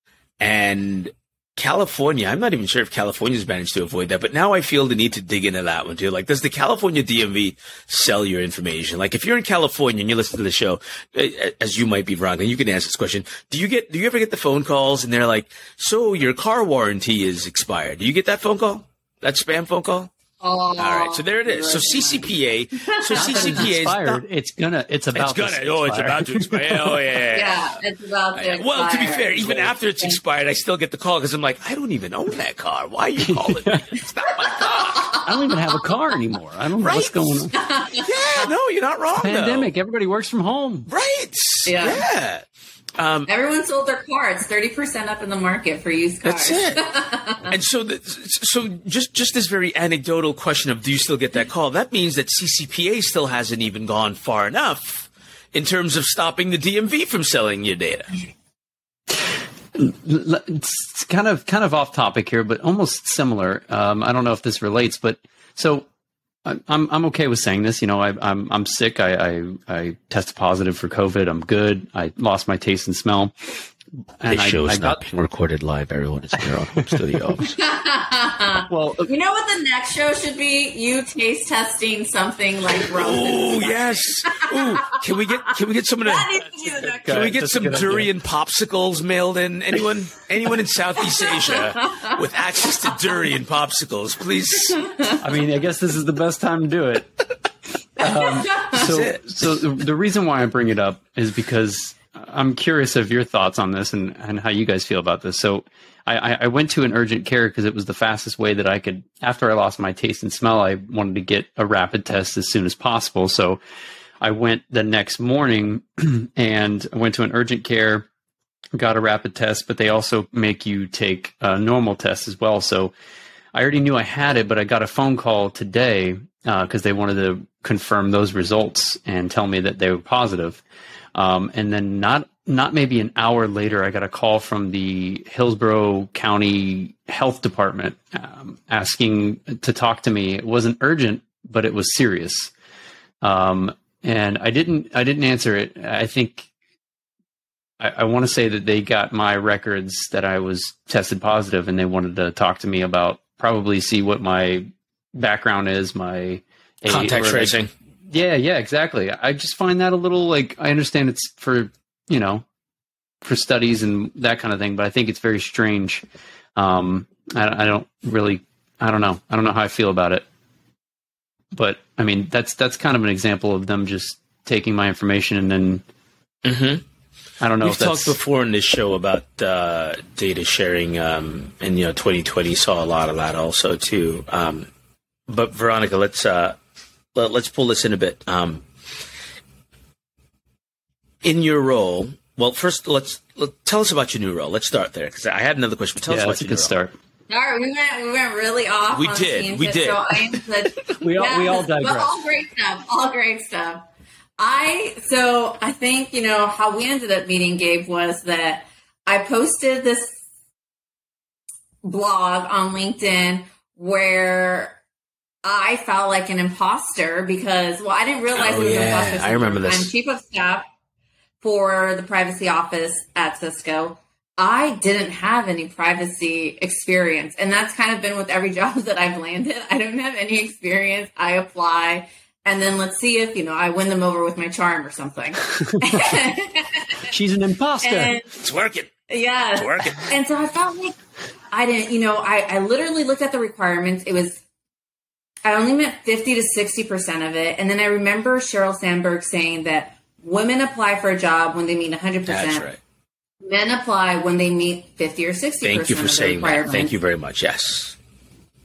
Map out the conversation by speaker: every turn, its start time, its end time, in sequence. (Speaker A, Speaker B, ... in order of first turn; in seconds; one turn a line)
Speaker A: 0.4-20.1
Speaker B: 20.4-23.7
Speaker A: 20.8-24.2
Speaker C: 23.1-27.0
Speaker A: 25.1-27.8
Speaker B: 27.3-30.2
Speaker A: 28.3-35.1
Speaker C: 33.3-33.8
Speaker B: 34.9-35.2
Speaker C: 35.2-37.5
Speaker A: 36.8-39.7
Speaker B: 37.5-38.5
Speaker C: 39.2-40.9
Speaker A: 40.9-42.4
Speaker B: 41.6-42.0
Speaker A: 43.0-43.3
Speaker B: 43.3-47.5
Speaker A: 46.2-46.8
Speaker A: 47.5-58.1
Speaker C: 59.7-65.9
Speaker C: 66.4-73.3
Speaker C: 74.2-75.0
Speaker A: 74.3-77.5
Speaker B: 77.6-85.4
Speaker C: 78.7-79.1
Speaker A: 82.8-86.5
Speaker B: 86.0-87.3
Speaker C: 86.8-88.1
Speaker A: 87.0-94.9
Speaker C: 95.2-97.1
Speaker C: 98.0-113.6
Speaker A: 98.7-99.2
Speaker C: 114.2-118.1
Speaker C: 118.8-122.9
Speaker C: 123.5-130.6
Speaker C: 131.1-142.5
Speaker C: 143.2-146.5
Speaker C: 147.8-157.6
Speaker A: 156.9-157.7
Speaker C: 158.1-162.4
Speaker C: 163.2-166.0
Speaker C: 166.6-170.2
Speaker C: 171.5-175.8
Speaker A: 176.4-176.8
Speaker C: 177.4-178.2
Speaker A: 177.6-184.7
Speaker A: 185.3-186.6
Speaker A: 187.1-188.6
Speaker A: 191.2-196.7
Speaker C: 196.1-196.9
Speaker B: 197.3-203.8
Speaker A: 198.9-200.4
Speaker C: 201.0-202.1
Speaker B: 204.4-210.2
Speaker B: 211.8-214.8
Speaker B: 215.4-220.7
Speaker A: 218.3-219.9
Speaker B: 221.4-237.1
Speaker C: 235.6-236.0
Speaker C: 237.1-238.1
Speaker B: 237.8-238.4
Speaker A: 238.4-238.9
Speaker B: 239.1-240.9
Speaker A: 239.6-240.1
Speaker B: 241.5-244.4
Speaker B: 245.4-252.7
Speaker A: 252.3-252.8
Speaker B: 253.4-256.9
Speaker A: 255.6-257.9